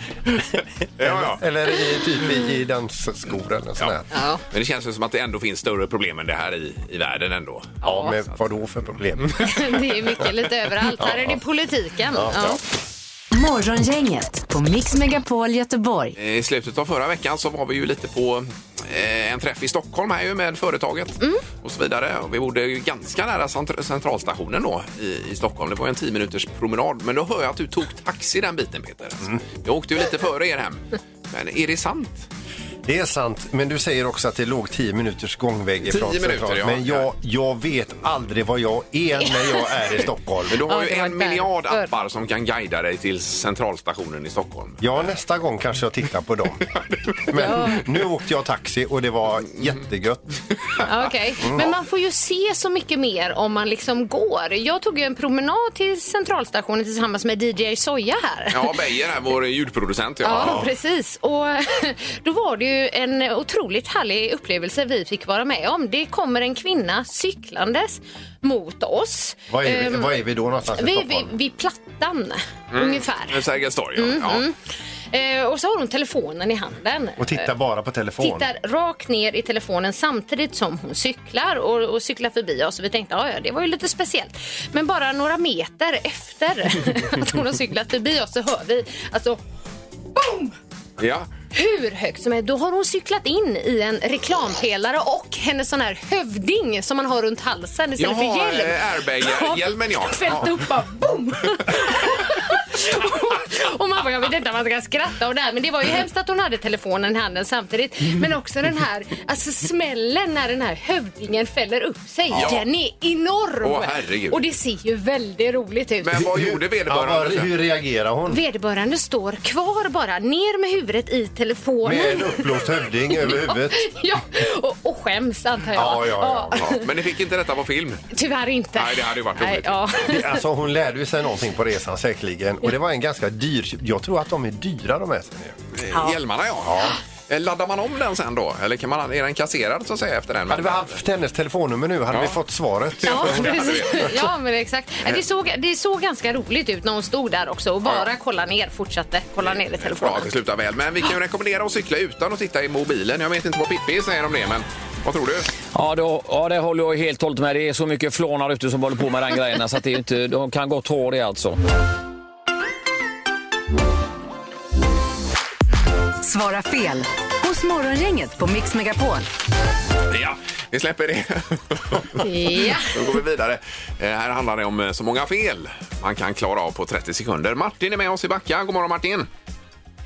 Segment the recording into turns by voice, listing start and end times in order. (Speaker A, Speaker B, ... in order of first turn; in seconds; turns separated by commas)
Speaker A: 0.4-4.0, Speaker B: 1.0-1.4, Speaker C: 4.1-4.4, Speaker B: 4.5-7.8, Speaker C: 7.8-8.1, Speaker A: 7.8-9.5, Speaker C: 9.4-12.6, Speaker A: 11.0-11.4, Speaker A: 12.1-12.6, Speaker D: 13.3-16.1, Speaker B: 16.1-32.3, Speaker A: 32.9-40.6, Speaker B: 35.9-37.1, Speaker C: 39.2-39.7, Speaker B: 40.5-45.1, Speaker C: 40.7-41.9, Speaker A: 44.8-46.6, Speaker B: 46.7-47.5, Speaker A: 47.3-50.4, Speaker C: 47.4-47.8, Speaker C: 50.8-58.8, Speaker A: 51.4-51.7, Speaker B: 58.5-60.7, Speaker C: 60.2-70.1, Speaker A: 69.5-71.3, Speaker C: 70.7-73.4, Speaker B: 72.7-74.4, Speaker C: 74.0-74.5, Speaker C: 75.1-77.5, Speaker A: 77.2-78.4, Speaker C: 78.2-89.4, Speaker C: 90.1-90.5, Speaker B: 91.0-91.3, Speaker C: 91.5-116.2, Speaker B: 98.0-100.6, Speaker B: 112.3-112.6, Speaker B: 113.6-114.4, Speaker B: 116.0-117.5, Speaker A: 116.2-118.4, Speaker C: 118.3-122.6, Speaker A: 121.8-123.8, Speaker C: 123.1-126.8, Speaker A: 125.7-126.6, Speaker B: 126.5-128.0, Speaker C: 128.1-130.4, Speaker B: 128.7-130.0, Speaker A: 130.0-135.6, Speaker B: 135.7-141.0, Speaker C: 135.9-136.2, Speaker A: 136.6-136.9, Speaker A: 140.5-144.2, Speaker B: 142.1-142.4, Speaker B: 142.9-144.1, Speaker C: 143.0-150.3, Speaker B: 147.8-148.1, Speaker B: 149.4-155.5, Speaker E: 155.7-161.6, Speaker D: 166.2-169.3, Speaker B: 170.1-179.3, Speaker C: 172.2-173.0